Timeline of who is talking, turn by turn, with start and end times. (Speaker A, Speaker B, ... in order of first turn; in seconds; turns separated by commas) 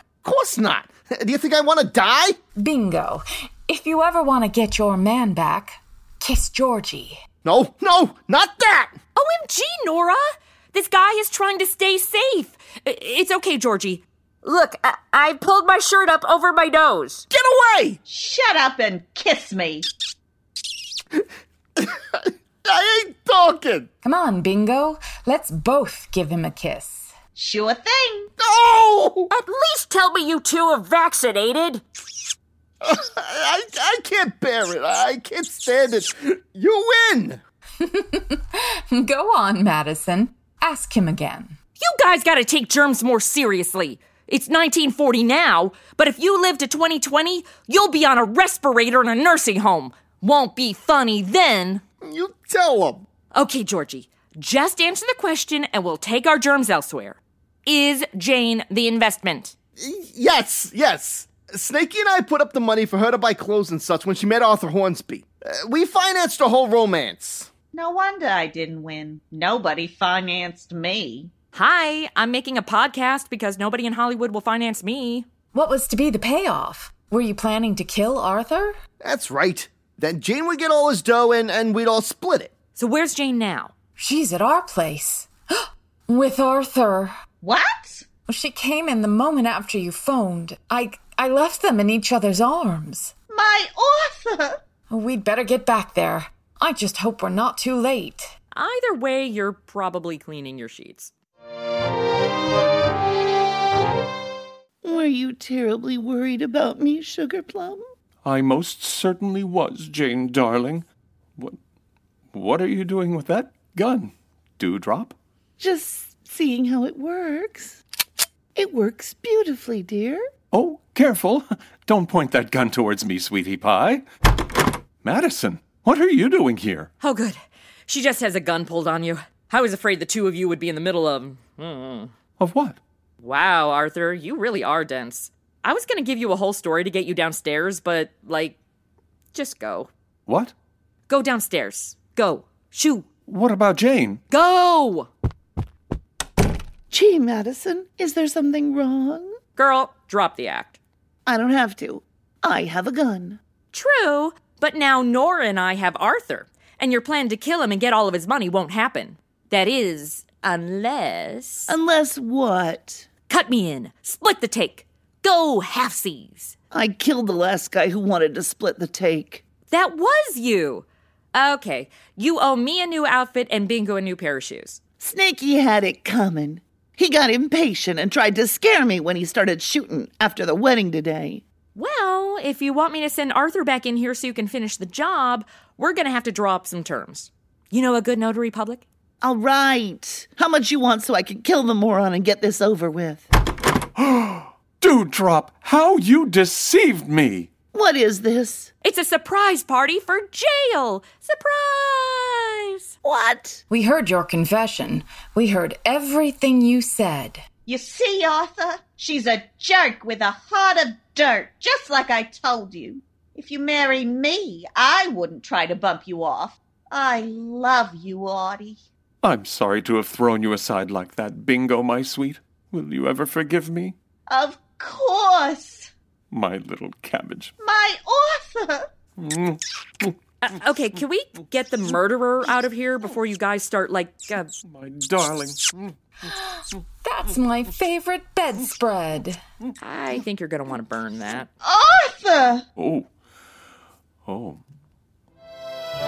Speaker A: 0.2-2.4, Speaker B: 2.6-7.2, Speaker A: 7.4-8.9, Speaker C: 9.2-17.3, Speaker A: 17.3-18.0, Speaker D: 18.1-19.9, Speaker A: 21.8-23.9, Speaker B: 24.0-27.1, Speaker D: 27.4-28.3, Speaker A: 28.4-29.3, Speaker C: 29.3-31.8, Speaker A: 32.8-37.4, Speaker B: 37.8-41.6, Speaker C: 41.8-51.8, Speaker A: 52.0-53.1, Speaker C: 53.3-59.5, Speaker A: 59.8-67.5, Speaker D: 67.7-71.3, Speaker C: 71.5-75.3, Speaker B: 75.5-78.8, Speaker A: 79.0-82.5, Speaker C: 82.8-83.7, Speaker B: 84.0-87.1, Speaker D: 87.4-88.1, Speaker B: 88.3-93.1, Speaker D: 93.3-94.6, Speaker B: 94.9-98.3, Speaker C: 98.5-101.1, Speaker E: 104.8-107.9, Speaker F: 108.2-110.9, Speaker F: 112.3-115.2, Speaker E: 115.6-117.8, Speaker E: 118.5-120.3, Speaker F: 120.5-124.0, Speaker F: 125.0-126.9, Speaker C: 127.0-132.1, Speaker F: 132.4-132.8, Speaker C: 133.2-138.6, Speaker C: 139.3-139.9, Speaker F: 140.3-140.5, Speaker C: 141.1-143.1, Speaker F: 143.3-144.2, Speaker C: 144.3-145.1, Speaker E: 146.9-149.3, Speaker C: 149.6-150.8, Speaker E: 151.2-153.4, Speaker C: 153.7-161.7, Speaker E: 161.7-163.1, Speaker C: 163.3-166.6, Speaker E: 166.7-169.4, Speaker C: 169.7-174.8, Speaker E: 175.0-181.4, Speaker C: 181.8-188.9, Speaker E: 189.2-193.3, Speaker F: 194.0-197.5, Speaker E: 197.7-198.7, Speaker C: 198.8-202.9, Speaker E: 203.0-203.6, Speaker B: 203.7-207.4, Speaker D: 207.7-218.8, Speaker F: 219.2-224.0, Speaker D: 224.3-225.9, Speaker F: 226.3-227.5, Speaker D: 227.6-228.8, Speaker F: 229.2-230.1, Speaker C: 230.4-234.5, Speaker F: 234.7-235.9, Speaker B: 236.3-239.4, Speaker C: 239.8-241.5, Speaker D: 241.6-242.7, Speaker F: 242.8-243.1, Speaker F: 244.3-244.6